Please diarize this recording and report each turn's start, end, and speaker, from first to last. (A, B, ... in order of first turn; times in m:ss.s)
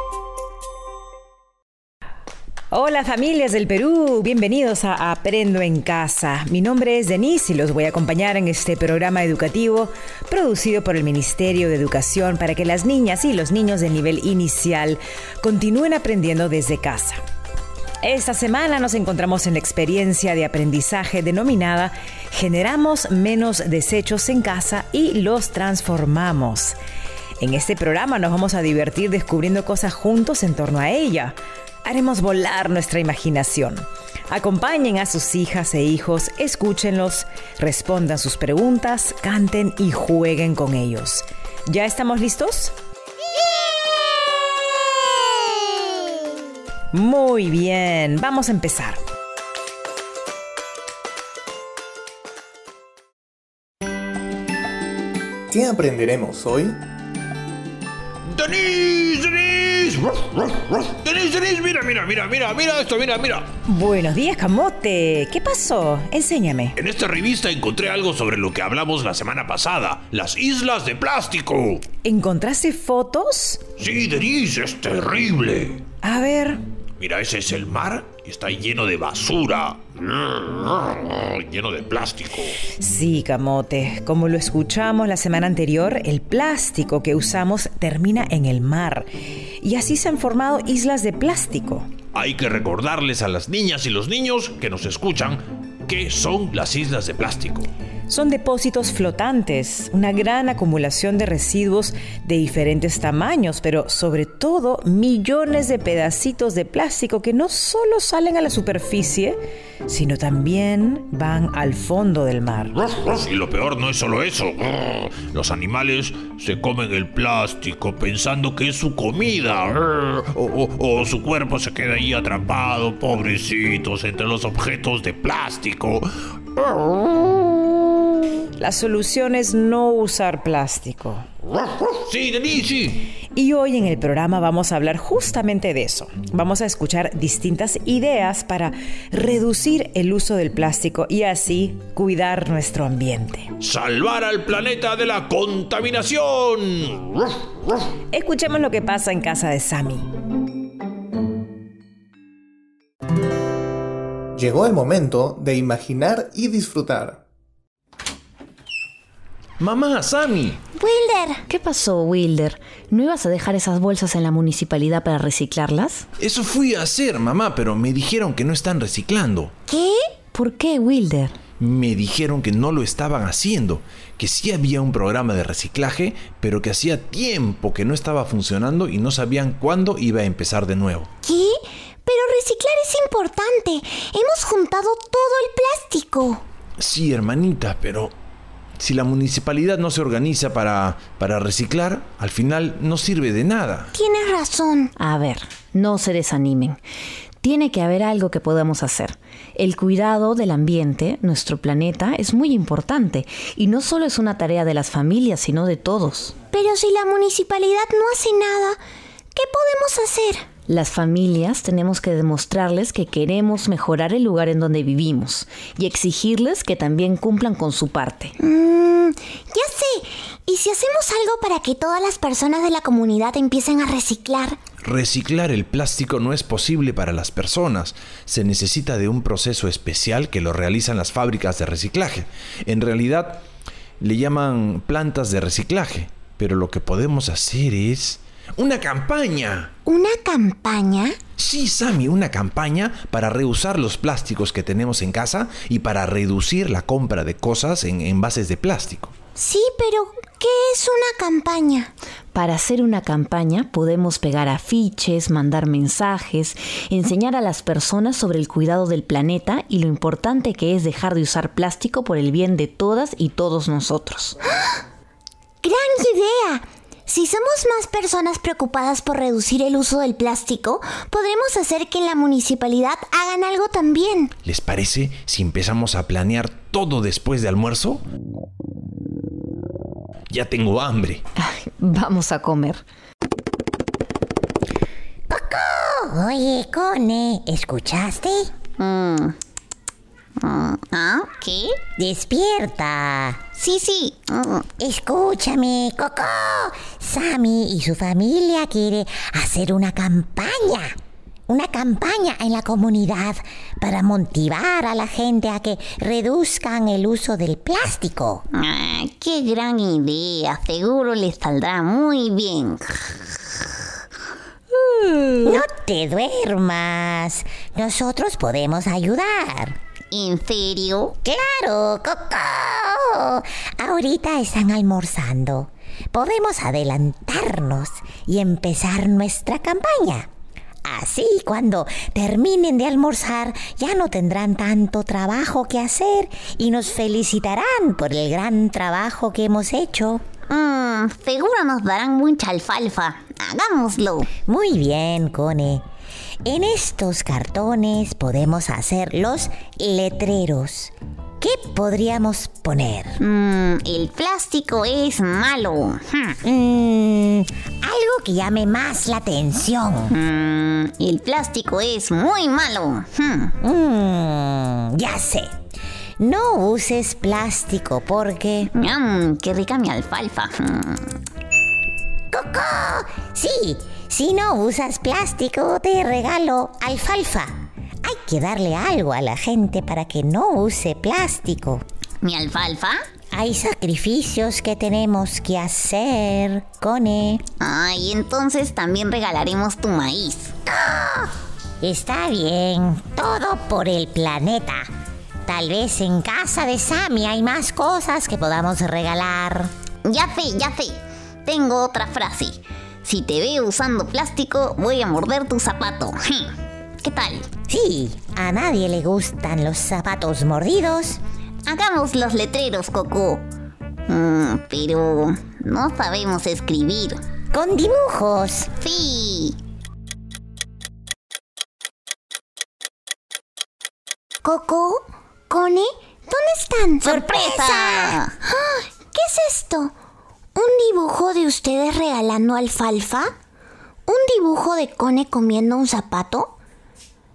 0:02.7-0:17.2 A
0:18.0-0:26.8 A
0:27.4-0:42.7 A
0:46.9-0:49.0 A
0:55.5-0:56.8 B
0:58.3-1:03.4 C
1:03.7-1:06.7 A
1:06.8-1:11.8 C
1:12.0-1:13.6 A
1:13.8-1:15.8 C
1:16.0-1:16.6 A
1:17.0-1:22.6 C
1:22.8-1:29.1 A
1:29.6-1:31.8 A
1:32.1-1:37.7 C
1:38.1-1:52.8 A
1:53.0-2:07.4 C
2:08.6-2:11.2 A
2:11.5-2:13.1 C
2:13.3-2:23.5 A
2:23.6-2:27.4 C
2:28.1-2:30.1 A
2:34.4-2:37.2 B
2:39.6-2:40.6 D
2:40.8-2:41.4 E
2:41.5-2:46.0 F
2:46.2-2:49.5 D
2:49.7-2:50.0 E
2:50.3-2:51.3 F
2:51.6-3:01.1 D
3:01.2-3:06.4 E
3:06.8-3:08.1 D
3:08.8-3:13.9 D
3:13.9-3:14.9 E
3:15.0-3:16.8 F
3:17.4-3:26.3 F
3:26.5-3:28.8 E
3:29.3-3:30.5 E
3:30.6-3:38.3 F
3:38.4-3:44.6 E
3:44.8-3:53.4 D
3:54.0-3:59.7 D
3:59.8-4:01.2 E
4:01.4-4:09.1 D
4:09.4-4:11.9 E
4:12.3-4:24.3 F
4:25.6-4:34.3 E
4:34.4-4:38.0 D
4:40.3-4:41.2 D
4:41.4-4:42.8 F
4:45.3-4:48.5 G
4:48.8-4:49.1 E
4:49.1-4:49.3 H
4:50.4-4:51.5 E
4:50.9-4:51.6 H
4:52.0-4:53.4 G
4:53.6-4:54.6 E
4:54.8-5:00.9 G
5:01.5-5:08.4 G
5:08.6-5:10.4 E
5:09.7-5:12.7 H
5:11.0-5:12.4 E
5:15.4-5:19.8 G
5:20.1-5:21.1 H
5:21.2-5:30.3 G
5:30.8-5:40.2 G
5:40.5-5:44.2 H
5:44.4-5:45.8 G
5:46.4-5:53.2 G
5:53.4-5:55.1 E
5:53.9-5:56.2 H
5:56.4-6:00.2 G
6:00.2-6:03.5 H
6:03.6-6:05.5 G
6:06.2-6:08.7 G
6:08.8-6:10.9 H
6:12.3-6:17.5 G
6:18.0-6:21.8 G
6:22.2-6:22.9 H
6:23.3-6:27.4 G
6:27.6-6:30.5 H
6:30.7-6:34.9 G
6:35.5-6:39.7 G
6:40.1-6:41.0 H
6:41.5-6:42.6 H
6:43.1-6:46.4 H
6:47.0-6:47.4 E
6:47.7-6:51.2 G
6:51.7-6:53.4 H
6:54.1-6:55.9 E
6:54.7-6:57.1 H
6:57.5-6:58.7 G
6:58.8-6:59.5 E
7:04.4-7:09.9 E
7:07.0-7:08.2 G
7:10.6-7:13.3 E
7:14.1-7:16.5 E